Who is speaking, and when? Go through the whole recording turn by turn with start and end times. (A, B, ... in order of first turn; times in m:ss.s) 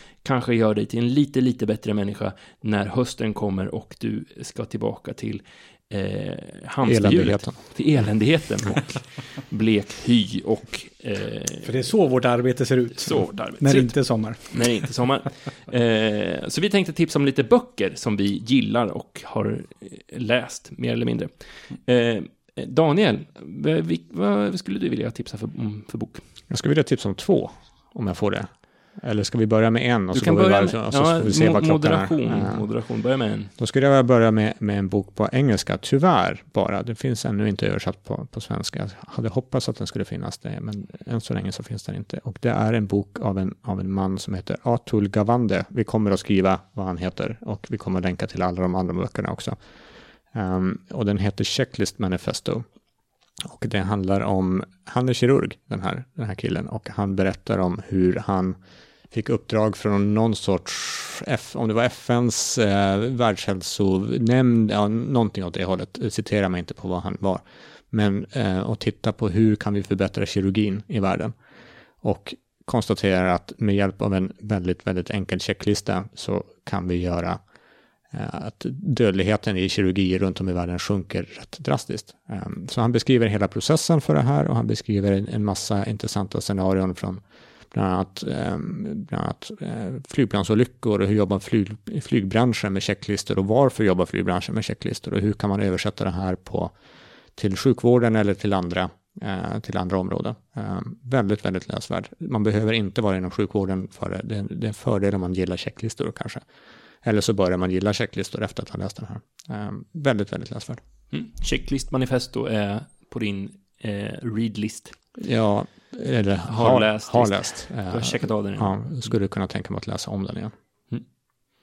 0:00.2-0:11.9 A
0:06.8-0:08.0 B
0:11.6-0:14.8 C
0:12.9-0:26.2 A
0:26.5-0:32.7 B
0:30.1-0:33.5 A
0:33.6-0:49.6 B
0:50.3-0:52.6 B
0:53.4-0:58.6 B
0:59.1-1:11.3 B
1:12.0-1:17.4 B
1:18.1-1:36.7 B
1:37.4-1:46.4 B
1:47.0-1:50.8 B
1:51.1-1:54.9 A
1:55.2-2:00.5 B
1:56.5-1:59.1 A